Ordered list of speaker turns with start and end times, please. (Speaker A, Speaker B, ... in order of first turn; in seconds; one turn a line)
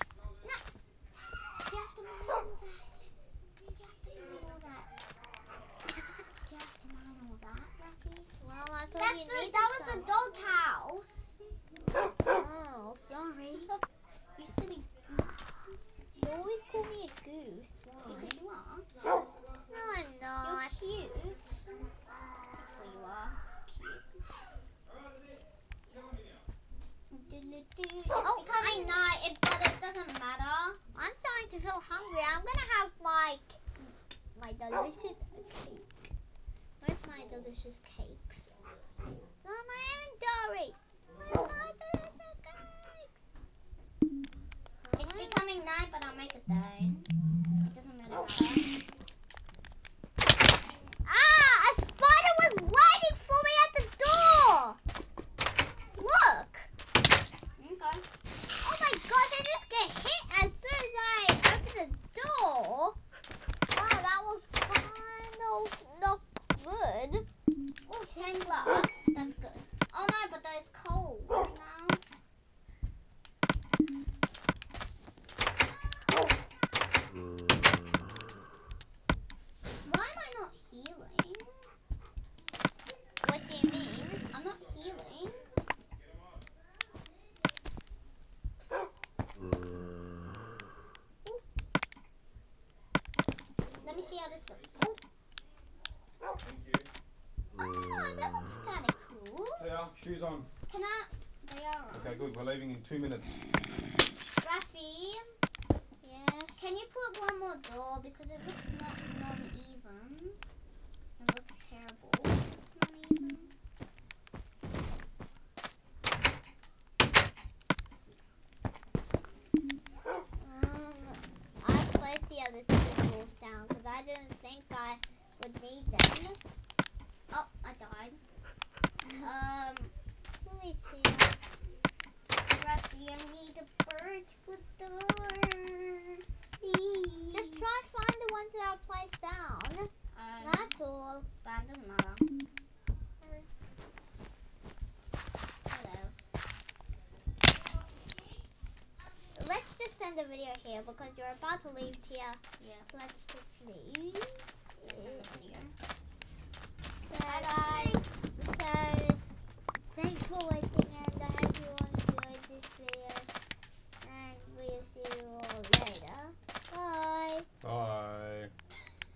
Speaker A: 1.6-4.9
Speaker A: 6.4-8.3
Speaker B: 8.4-10.1
Speaker A: 8.9-11.5
Speaker B: 12.2-13.7
Speaker A: 13.6-13.8
Speaker A: 14.4-15.8
Speaker B: 16.1-18.4
Speaker A: 18.0-18.9
Speaker B: 19.7-21.0
Speaker A: 20.4-21.5
Speaker A: 22.6-24.1
Speaker A: 27.1-30.8
Speaker B: 28.2-29.0
Speaker B: 30.9-33.6
Speaker B: 34.3-35.9
Speaker B: 36.8-38.5
Speaker B: 39.4-43.1
Speaker B: 44.8-45.4
Speaker A: 45.0-47.1
Speaker A: 47.6-48.7
Speaker B: 51.0-54.8
Speaker B: 55.9-56.7
Speaker A: 57.6-58.0
Speaker B: 58.6-63.0
Speaker B: 63.7-67.3
Speaker A: 67.9-72.0
Speaker B: 68.1-68.7
Speaker A: 79.8-81.6
Speaker B: 83.2-84.2
Speaker A: 84.3-85.4
Speaker A: 93.8-95.0
Speaker C: 96.4-96.9
Speaker A: 97.6-99.7
Speaker C: 99.5-100.5
Speaker A: 100.7-102.3
Speaker C: 101.9-103.4
Speaker A: 104.4-105.4
Speaker B: 106.0-106.7
Speaker A: 106.6-110.4
Speaker A: 111.2-113.5
Speaker B: 120.4-126.4
Speaker A: 127.3-128.2
Speaker A: 129.1-129.9
Speaker B: 130.2-131.4
Speaker A: 132.5-137.6
Speaker B: 137.3-141.3
Speaker A: 140.1-140.7
Speaker A: 141.4-142.2
Speaker B: 143.2-143.5
Speaker A: 145.7-146.1
Speaker B: 149.3-155.3
Speaker A: 152.6-152.9
Speaker A: 154.8-155.7
Speaker B: 157.0-159.2
Speaker A: 157.2-158.0
Speaker B: 159.9-163.3
Speaker B: 164.0-167.5
Speaker C: 167.6-168.5